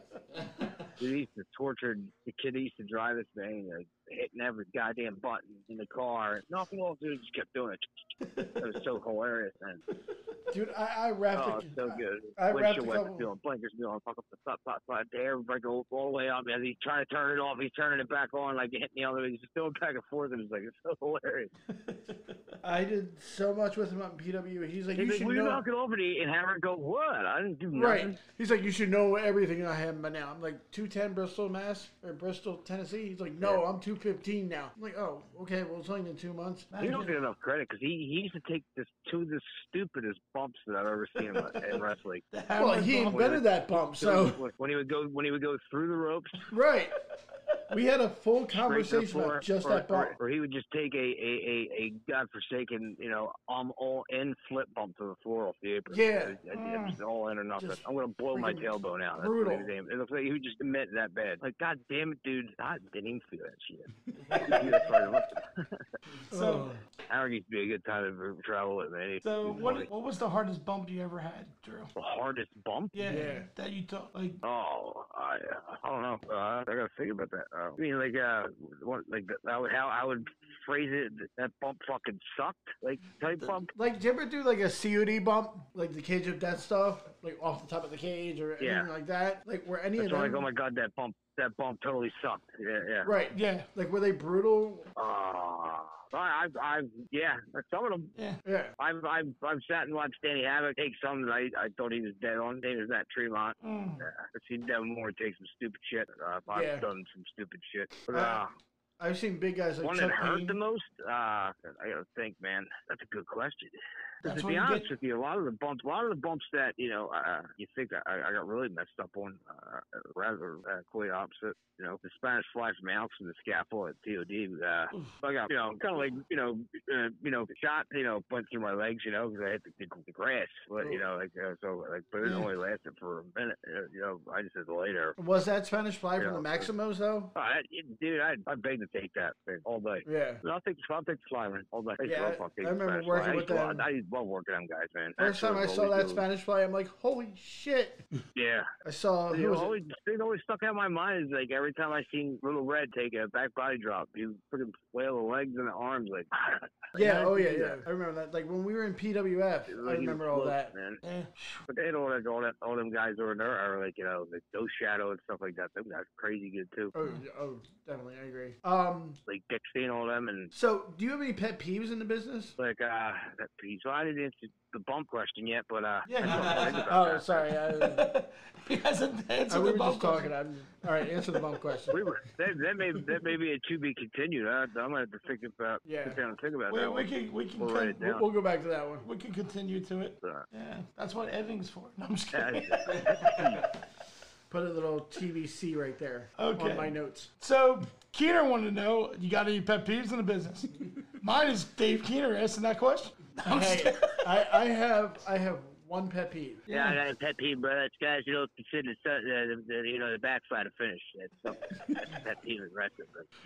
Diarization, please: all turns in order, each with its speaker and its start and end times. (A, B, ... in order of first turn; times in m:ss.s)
0:01.0-0:09.8 A
0:08.2-0:08.6 B
0:10.5-0:13.3 C
0:11.3-0:21.5 A
0:21.7-0:22.5 B
0:22.6-0:25.6 C
0:24.9-0:28.2 A
0:27.7-0:36.7 C
0:36.7-0:37.1 B
0:36.8-0:42.2 A
0:42.3-0:43.2 B
0:42.6-0:44.4 C
0:43.0-0:46.5 A
0:46.5-0:46.9 C
0:47.7-0:50.1 C
0:48.6-1:05.8 A
0:55.9-0:56.4 C
0:56.5-0:57.0 B
0:58.3-0:59.7 C
1:04.3-1:04.6 C
1:06.3-1:06.8 C
1:06.3-1:06.7 B
1:07.1-1:09.9 A
1:09.2-1:11.9 B
1:11.9-1:13.2 A
1:12.9-1:14.4 B
1:13.0-1:13.4 C
1:14.4-1:23.7 A
1:23.7-1:30.4 C
1:28.6-1:28.9 A
1:30.0-1:33.1 A
1:33.0-1:34.9 C
1:33.3-1:33.7 B
1:35.0-1:38.1 A
1:38.4-1:38.7 C
1:38.8-1:48.5 A
1:43.6-1:44.1 B
1:46.5-1:46.8 C
1:48.1-1:48.4 C
1:49.0-1:50.6 C
1:49.8-2:15.2 A
1:54.2-1:54.9 B
2:15.2-2:17.3 C
2:16.2-2:16.7 A
2:17.3-2:26.2 A
2:20.0-2:20.4 C
2:22.0-2:23.8 C
2:25.2-2:28.0 C
2:28.4-2:28.7 A
2:28.8-2:29.7 C
2:29.3-2:37.8 A
2:36.9-2:40.7 C
2:39.7-2:41.0 A
2:41.0-2:41.6 B
2:41.7-2:46.9 A
2:46.9-2:49.2 C
2:49.3-2:50.5 A
2:50.5-2:52.5 C
2:52.6-2:57.4 A
2:56.0-2:56.9 B
2:56.6-2:58.1 C
2:57.7-3:00.3 B
2:59.5-3:02.0 C
3:01.9-3:08.2 A
3:05.8-3:06.2 C
3:06.7-3:08.1 B
3:08.0-3:09.0 C
3:09.0-3:13.5 B
3:12.3-3:13.7 A
3:14.5-3:17.3 C
3:16.4-3:24.4 B
3:23.4-3:26.6 C
3:26.7-3:27.0 B
3:26.7-3:33.3 A